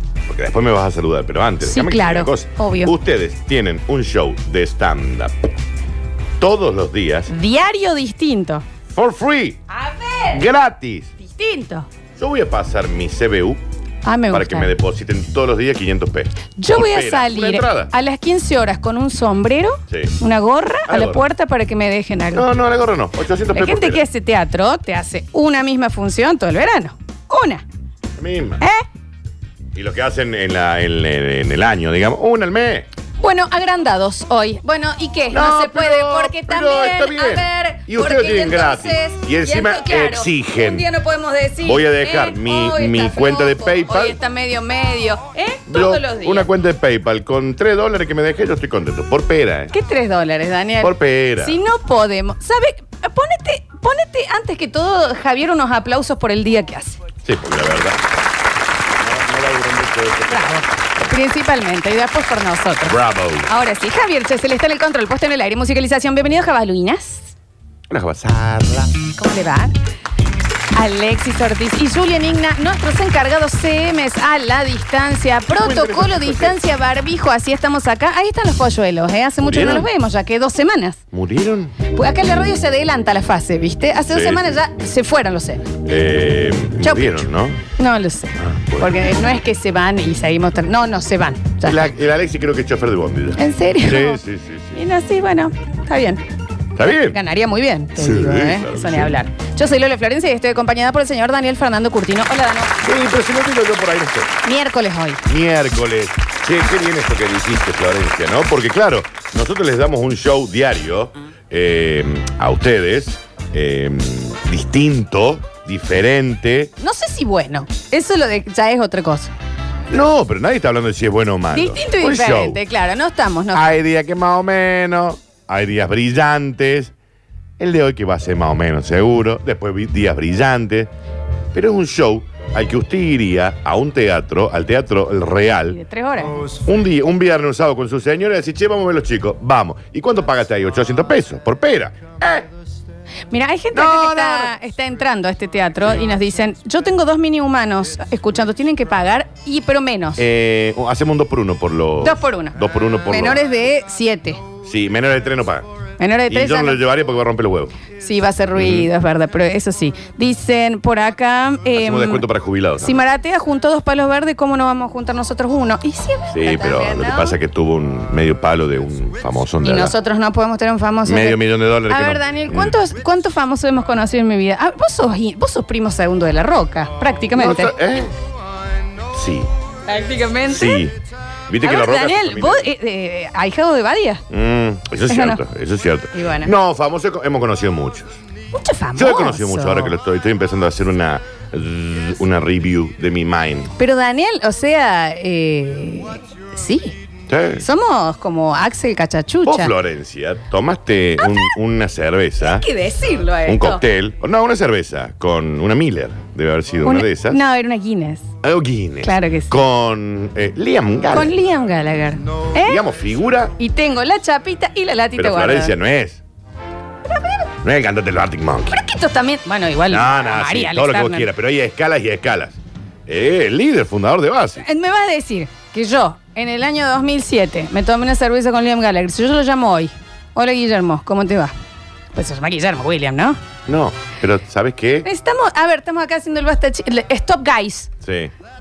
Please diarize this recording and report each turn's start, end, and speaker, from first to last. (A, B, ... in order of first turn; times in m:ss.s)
0:00.3-0:05.5 A
0:01.6-0:02.9 B
0:06.4-0:07.3 A
0:07.3-0:08.6 B
0:08.9-0:09.6 A
0:09.7-0:10.5 B
0:10.3-0:11.1 A
0:11.2-0:11.9 B
0:12.2-0:13.6 A
0:14.0-0:14.7 B
0:14.3-0:17.9 A
0:16.6-0:22.5 B
0:19.9-0:20.2 A
0:20.9-0:21.2 A
0:22.3-0:24.0 A
0:23.5-0:27.6 B
0:28.2-0:28.6 A
0:29.8-0:32.9 A
0:33.2-0:46.5 B
0:35.3-0:40.8 A
0:41.6-0:44.2 A
0:45.7-0:49.7 A
0:49.7-0:57.0 B
0:50.8-0:51.6 A
0:57.2-0:58.0 A
0:59.0-1:00.6 A
1:00.3-1:02.9 B
1:02.8-1:03.5 A
1:03.5-1:07.3 B
1:07.9-1:08.9 A
1:09.2-1:09.7 B
1:10.8-1:21.0 B
1:15.6-1:16.6 A
1:19.4-1:19.9 A
1:21.1-1:21.8 A
1:21.9-1:25.7 B
1:24.1-1:24.6 A
1:25.8-1:27.6 A
1:26.8-1:31.8 B
1:28.4-1:28.9 A
1:31.6-1:34.8 A
1:33.4-1:34.2 B
1:34.7-1:36.2 B
1:36.8-1:37.2 A
1:36.8-1:42.7 B
1:38.0-1:39.1 A
1:42.8-1:44.4 A
1:44.4-1:45.2 B
1:45.3-1:56.7 A
1:56.8-1:59.3 B
1:59.9-2:02.6 A
2:01.5-2:03.7 B
2:03.5-2:06.9 A
2:07.6-2:10.9 A
2:11.5-2:15.8 A
2:15.7-2:16.4 B
2:16.6-2:22.5 A
2:23.3-2:30.2 B
2:23.7-2:24.5 A
2:30.2-2:33.4 A
2:32.0-2:32.6 B
2:33.1-2:34.4 B
2:34.6-2:35.7 A
2:36.0-2:36.8 B
2:36.3-2:37.7 A
2:37.9-2:42.2 B
2:38.6-2:38.9 A
2:41.7-2:43.0 A
2:42.8-2:47.4 B
2:46.3-2:49.9 A
2:49.6-2:57.7 B
2:51.0-2:52.8 A
2:57.4-2:58.1 A
2:59.1-2:59.5 A
2:59.9-3:00.8 B
3:00.5-3:01.0 A
3:01.5-3:02.7 A
3:01.6-3:04.2 B
3:04.3-3:08.2 A
3:05.1-3:05.4 B
3:06.1-3:06.5 B
3:08.5-3:09.9 B
3:09.0-3:13.7 A
3:13.8-3:17.0 B
3:17.3-3:17.6 A
3:17.6-3:19.7 B
3:19.5-3:22.6 A
3:21.2-3:21.5 B
3:22.4-3:23.8 B
3:23.5-3:27.4 A
3:26.8-3:28.3 B
3:28.4-3:31.3 A
3:29.0-3:29.5 B
3:31.1-3:32.8 B
3:32.6-3:33.5 A
3:33.6-3:35.7 B
3:35.2-3:36.2 A
3:37.1-3:37.4 B
3:37.6-3:38.8 A
3:38.7-3:41.3 B
3:39.9-3:44.6 A
3:44.6-3:51.5 B
3:52.1-3:53.4 B
3:53.7-3:55.1 A
3:55.0-3:57.9 B
3:58.0-3:58.3 A